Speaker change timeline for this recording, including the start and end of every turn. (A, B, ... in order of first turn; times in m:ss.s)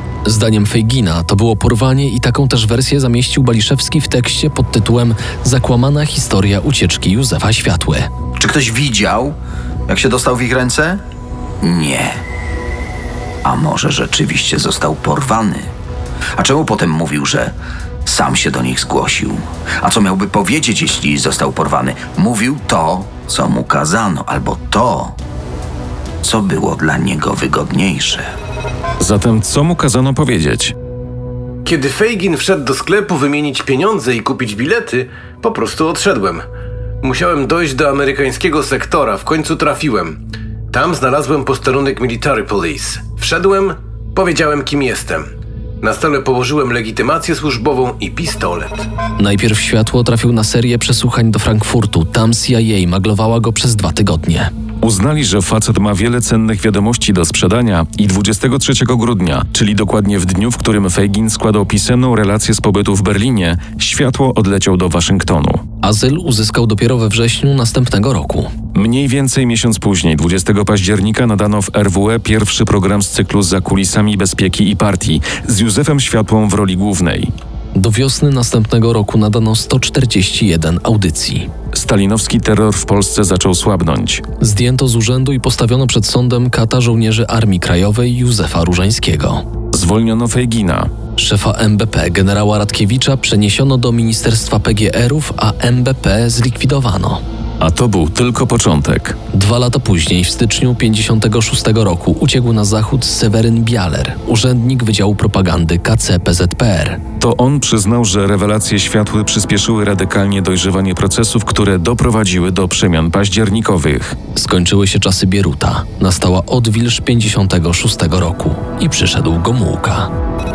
0:00.2-0:08.1 A
0:08.4-0:09.4 B
0:09.9-0:11.0 B
0:11.6-0:12.2 B
0:13.4-0:15.7 B
0:16.4-0:17.5 B
0:18.0-0:25.1 B
0:26.2-0:28.3 B
0:29.0-0:30.7 C
0:31.6-0:36.4 D
0:37.0-0:40.2 D
0:40.7-0:45.2 D
0:45.8-0:48.9 D
0:49.2-0:54.5 A
0:54.8-1:05.6 C
1:05.8-1:08.5 A
1:08.7-1:17.3 C
1:17.7-1:21.5 A
1:21.7-1:24.2 C
1:24.4-1:29.4 A
1:29.7-1:30.9 C
1:31.2-1:37.2 A
1:37.6-1:39.2 C
1:39.3-1:47.0 A
1:47.2-1:54.2 C
1:54.4-2:00.1 A